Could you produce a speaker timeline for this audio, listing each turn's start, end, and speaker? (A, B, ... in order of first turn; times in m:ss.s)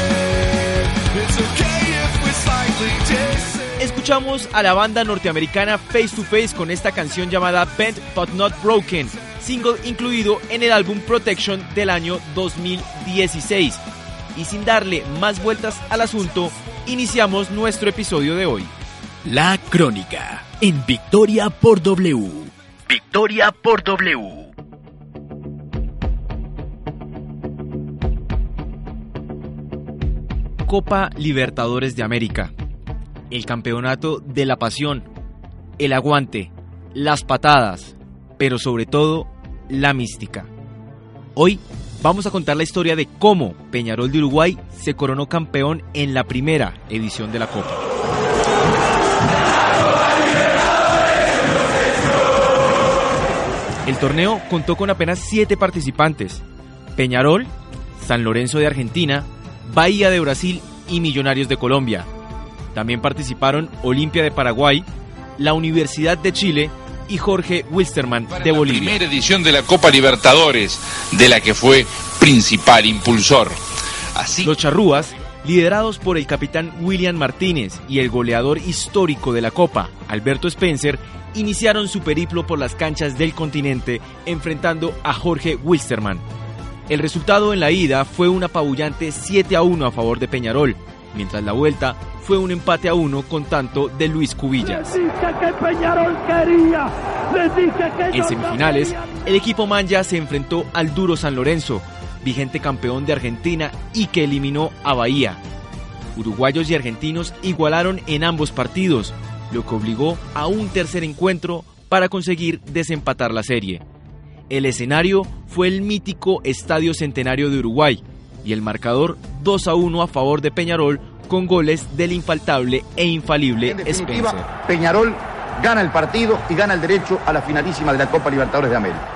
0:01.3-0:03.4 A
0:03.6-0:13.8 B
0:14.3-0:18.7 B
0:19.2-0:24.5 A
0:30.6-0:32.5 B
0:33.3-0:35.1 B
0:35.8-0:40.5 B
0:41.4-0:47.8 B
0:53.8-0:56.4 B
0:57.0-1:02.1 B
1:02.7-1:04.9 B
1:05.4-1:09.0 B
1:08.4-1:13.6 C
1:14.2-1:14.5 C
1:14.4-1:26.2 B
1:26.9-1:35.6 B
1:36.4-1:36.8 B
1:37.5-1:45.4 B
1:46.2-1:53.8 B
1:54.5-2:04.5 B
2:03.7-2:09.0 D